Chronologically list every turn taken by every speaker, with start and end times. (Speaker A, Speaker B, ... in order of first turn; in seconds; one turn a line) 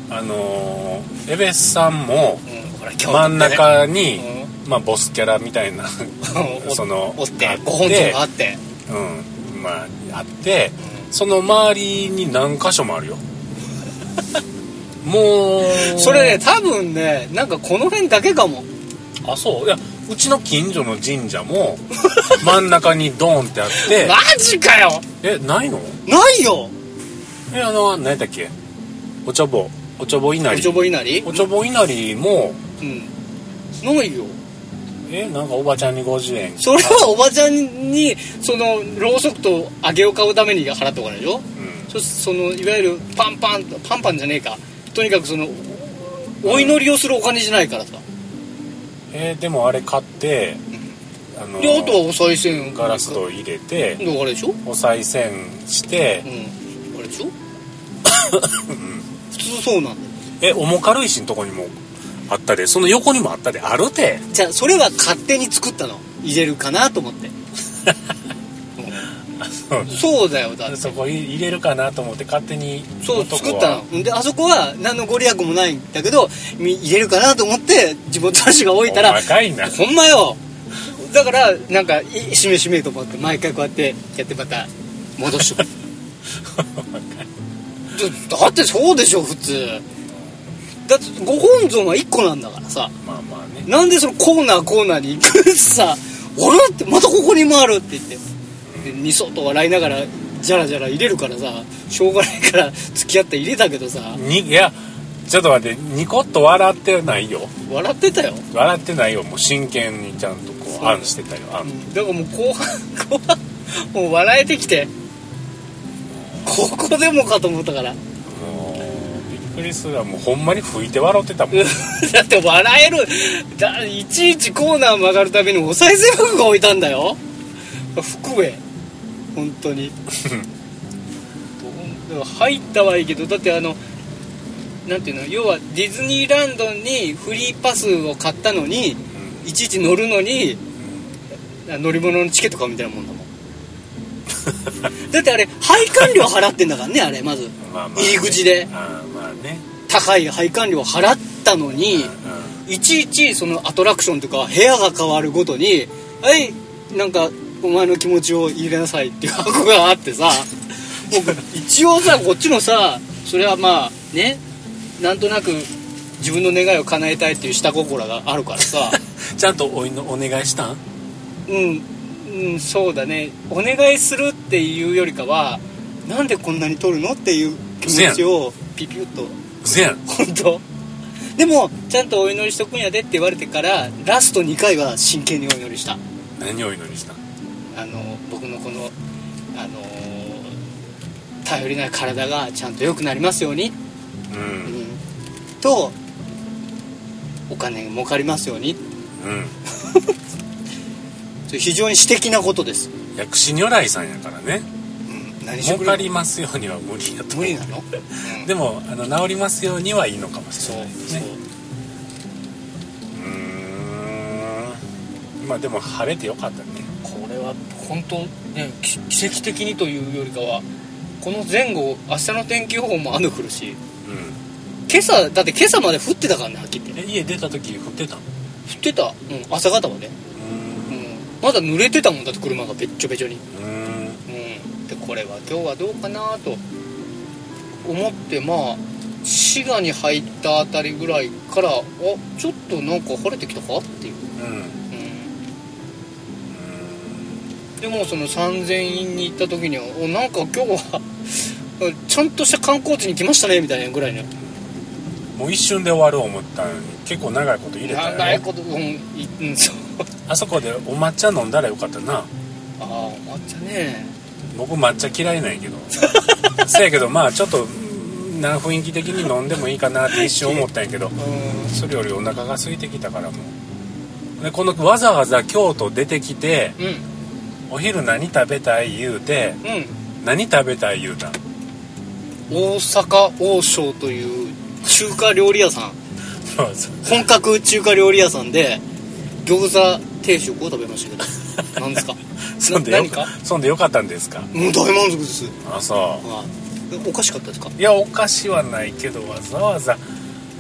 Speaker A: 0.1-2.4
Speaker B: 2.5-4.5
Speaker A: 3.1-8.2
Speaker B: 6.2-8.6
Speaker A: 8.9-13.2
Speaker A: 15.0-16.4
Speaker B: 15.6-18.7
Speaker A: 19.2-24.2
Speaker B: 22.0-22.5
Speaker B: 23.7-25.1
Speaker A: 25.2-26.0
Speaker B: 26.1-26.7
Speaker A: 27.5-28.5
Speaker A: 29.2-32.6
Speaker B: 30.5-31.5
Speaker B: 32.8-33.1
Speaker B: 33.8-34.4
Speaker A: 35.1-37.1
Speaker B: 36.6-48.0
Speaker A: 41.6-41.9
Speaker A: 46.5-46.9
Speaker A: 49.1-50.6
Speaker A: 51.4-52.1
Speaker B: 51.6-53.2
Speaker A: 52.6-54.0
Speaker B: 54.0-54.6
Speaker A: 54.6-56.3
Speaker B: 56.2-57.3
Speaker A: 58.0-59.1
Speaker B: 59.3-60.1
Speaker A: 60.4-61.8
Speaker A: 62.3-64.3
Speaker B: 64.3-67.3
Speaker B: 68.8-69.1
Speaker A: 69.4-70.0
Speaker B: 69.9-71.0
Speaker A: 70.7-73.8
Speaker B: 73.0-85.7
Speaker A: 78.9-79.8
Speaker A: 86.4-87.3
Speaker B: 87.9-89.8
Speaker B: 90.9-92.9
Speaker A: 93.0-93.7
Speaker B: 93.7-98.2
Speaker A: 98.7-99.0
Speaker B: 98.8-104.2
Speaker A: 104.1-104.8
Speaker A: 105.3-107.5
Speaker B: 107.7-108.5
Speaker A: 108.5-111.7
Speaker B: 110.8-114.9
Speaker B: 116.5-118.0
Speaker A: 118.2-121.8
Speaker B: 121.5-127.2
Speaker B: 128.0-128.6
Speaker B: 129.3-129.9
Speaker A: 130.1-130.5
Speaker B: 131.6-133.8
Speaker B: 134.9-140.6
Speaker A: 139.1-139.4
Speaker B: 141.7-143.3
Speaker A: 144.5-144.9
Speaker B: 145.1-148.7
Speaker A: 147.6-149.7
Speaker B: 149.9-152.1
Speaker A: 151.9-152.6
Speaker B: 152.7-164.4
Speaker B: 165.0-169.0
Speaker A: 168.9-170.8
Speaker B: 171.5-179.4
Speaker A: 177.8-178.3
Speaker A: 179.6-180.0
Speaker B: 180.1-180.6
Speaker B: 181.4-186.0
Speaker A: 186.4-187.2
Speaker B: 187.8-188.9
Speaker B: 189.5-190.6
Speaker B: 191.4-193.8
Speaker A: 194.3-194.8
Speaker B: 194.7-195.0
Speaker B: 195.6-196.0
Speaker B: 197.5-198.8
Speaker A: 199.2-199.6
Speaker B: 199.7-200.1
Speaker B: 201.5-202.9
Speaker A: 203.2-204.7
Speaker B: 205.1-206.1
Speaker A: 205.6-211.3
Speaker B: 207.3-208.5
Speaker B: 210.6-211.4
Speaker A: 213.1-214.8
Speaker A: 215.4-216.9
Speaker B: 217.0-220.7
Speaker B: 221.2-223.8
Speaker A: 224.0-224.4
Speaker B: 224.9-227.0
Speaker A: 226.9-228.2
Speaker B: 228.7-230.2
Speaker A: 230.4-231.0
Speaker B: 230.9-233.4
Speaker A: 233.5-234.2
Speaker B: 234.3-236.6
Speaker B: 237.8-244.3
Speaker A: 244.4-244.8
Speaker B: 244.9-245.3
Speaker A: 246.5-247.4
Speaker B: 247.8-254.3
Speaker A: 255.4-258.4
Speaker B: 257.8-260.0
Speaker A: 260.3-262.3
Speaker B: 262.8-264.1
Speaker A: 264.5-273.6
Speaker B: 266.0-266.7
Speaker B: 270.1-271.7
Speaker A: 274.4-276.8
Speaker B: 276.8-277.0
Speaker A: 277.7-279.6
Speaker B: 279.6-280.0
Speaker A: 280.2-281.4
Speaker B: 282.5-286.0
Speaker A: 286.4-287.3
Speaker B: 287.1-288.8
Speaker B: 289.4-293.3
Speaker A: 292.5-294.5
Speaker B: 294.5-295.6
Speaker A: 295.6-296.2
Speaker B: 296.2-297.8
Speaker A: 297.8-300.0